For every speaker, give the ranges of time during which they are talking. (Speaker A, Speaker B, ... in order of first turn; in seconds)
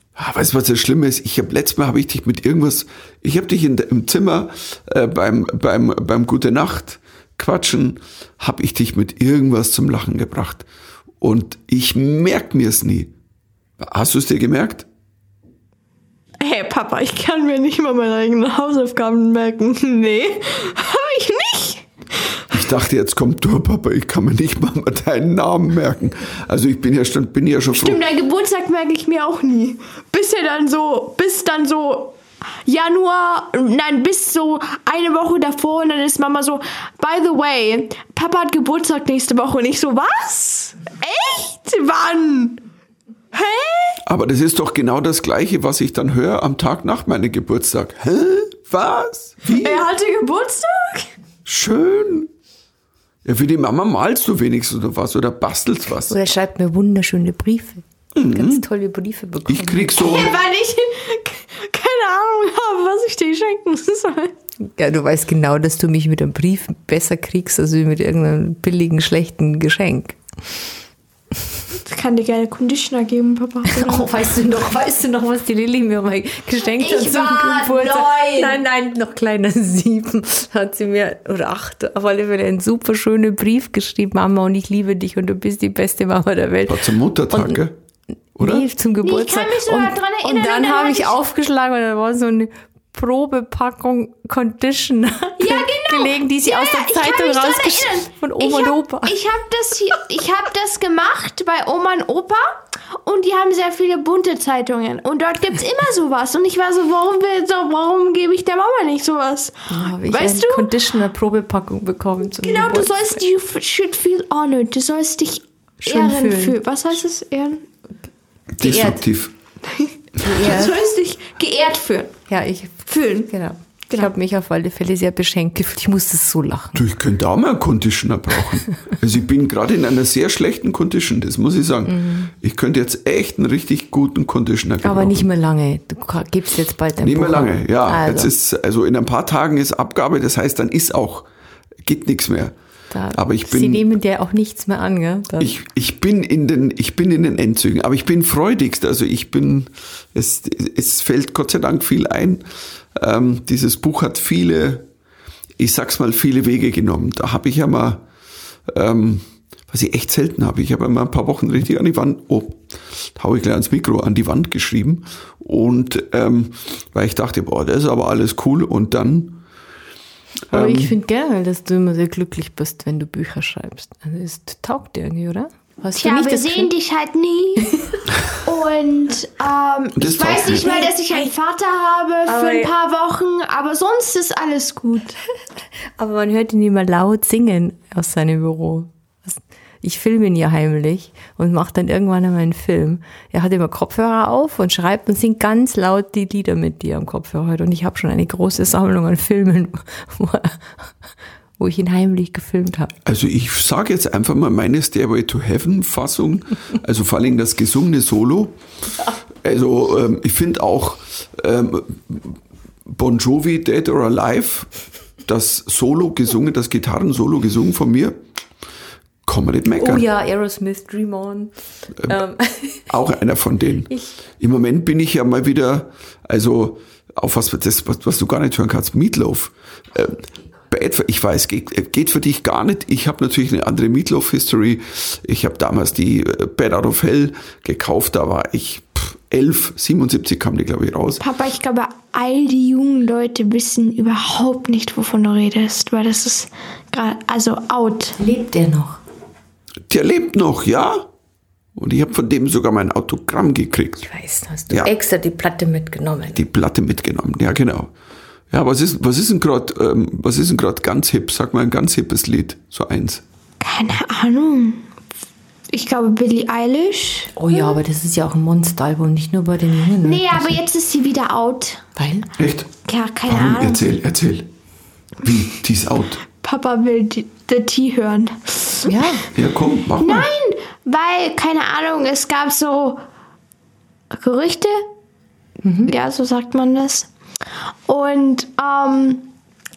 Speaker A: 0.2-10.7, 11.2-13.1, 13.8-14.8, 22.5-28.0, 44.0-49.8, 51.5-52.3, 53.2-56.2, 58.1-58.6, 59.4-60.3, 86.7-87.7, 88.4-88.7, 118.5-119.3, 126.7-135.2, 137.0-141.3, 141.8-142.5, 143.1-143.9, 145.4-152.4, 152.9-154.8, 155.6-158.0, 158.7-162.6, 163.1-169.4, 170.5-170.9, 179.9-180.8, 203.0-208.5, 209.4-214.7, 215.2-218.2, 219.2-220.0, 222.9-241.2, 249.9-251.1, 251.8-254.1, 256.3-257.9, 258.5-263.2, 272.4-272.7, 273.2-274.5, 275.2-276.2, 279.3-280.3
Speaker B: 16.4-21.9, 27.7-42.6, 43.3-44.0, 49.5-51.1, 60.0-64.3, 71.8-74.1, 76.7-78.6, 89.0-91.2, 95.4-110.7, 112.4-117.6, 119.7-122.2, 122.9-123.3, 175.9-177.7, 178.4-185.2, 241.2-248.2, 263.6-264.8, 265.7-267.8, 270.0-271.9, 272.9-273.8, 276.4-279.0, 280.0-283.0, 284.1-284.9, 285.8-287.1, 287.9-289.3
Speaker C: 56.1-60.0, 64.6-70.2, 73.7-87.6, 88.4-99.2, 109.7-113.2, 115.8-116.6, 118.6-119.0, 120.2-120.8, 122.3-126.8, 131.8-132.3, 134.8-138.3, 142.9-145.5, 170.5-176.7, 180.6-181.3, 182.3-182.7, 186.0-200.9, 201.6-202.9, 219.8-221.5, 222.1-222.9, 248.2-249.0, 254.0-256.4, 267.4-270.6, 271.9-272.3, 278.9-279.2, 285.6-285.9